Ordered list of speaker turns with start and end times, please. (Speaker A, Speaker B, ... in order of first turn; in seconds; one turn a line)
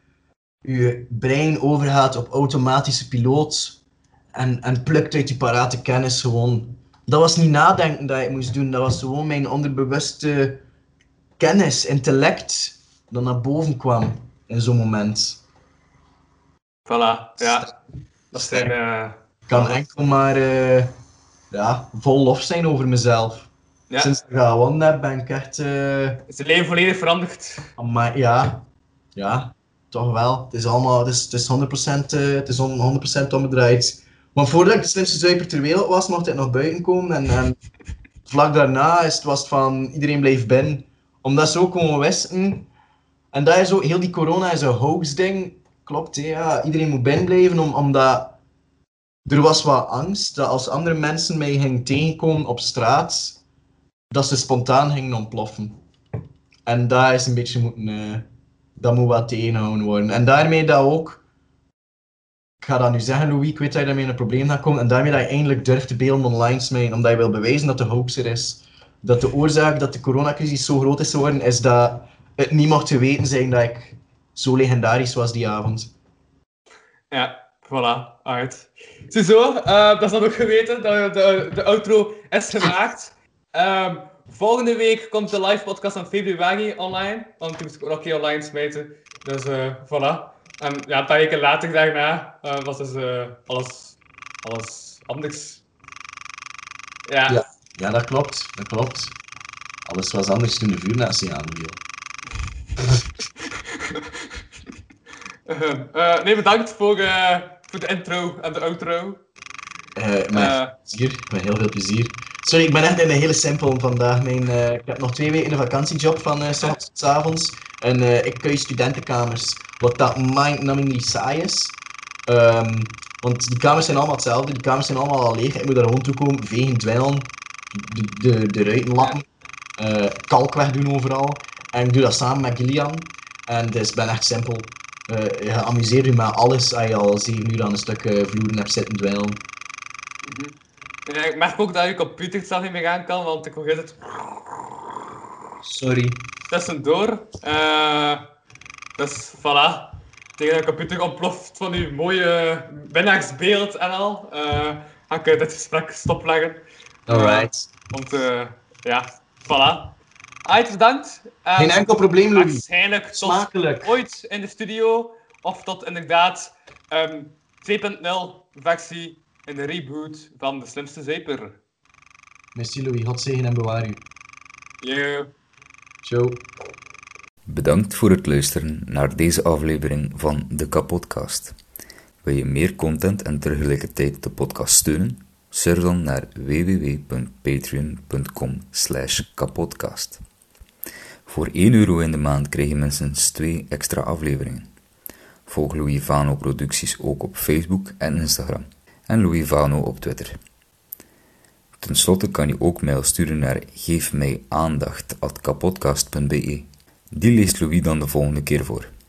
Speaker A: 0.7-3.8
Speaker A: 4.3-10.6
Speaker A: 11.4-15.4
Speaker B: 16.9-17.7
Speaker A: 17.4-17.7
Speaker B: 18.3-19.8
Speaker A: 18.3-18.7
Speaker A: 19.5-20.9
Speaker A: 21.5-26.2
Speaker B: 26.3-27.7
Speaker A: 27.8-28.6
Speaker A: 29.2-37.6
Speaker A: 38.3-42.7
Speaker A: 43.3-48.4
Speaker A: 49.3-53.4
Speaker A: 54.1-55.8
Speaker A: 56.7-58.3
Speaker A: 58.8-61.2
Speaker A: 62.6-75.9
Speaker B: 77.1-95.6
Speaker B: 97.1-97.4
Speaker A: 97.3-99.2
Speaker A: 99.9-101.8
Speaker B: 105.5-109.2
Speaker A: 110.0-129.2
Speaker B: 110.3-110.8
Speaker A: 129.8-139.4
Speaker B: 140.2-140.5
Speaker B: 141.1-144.0
Speaker A: 145.6-146.2
Speaker B: 146.5-148.2
Speaker B: 149.0-159.9
Speaker A: 157.1-157.7
Speaker B: 160.4-171.6
Speaker A: 161.6-163.9
Speaker A: 172.6-174.0
Speaker B: 174.8-175.3
Speaker A: 176.0-176.4
Speaker C: 177.5-181.6
Speaker C: 182.2-190.2
Speaker C: 191.3-194.7
Speaker C: 195.5-200.4
Speaker C: 201.8-208.9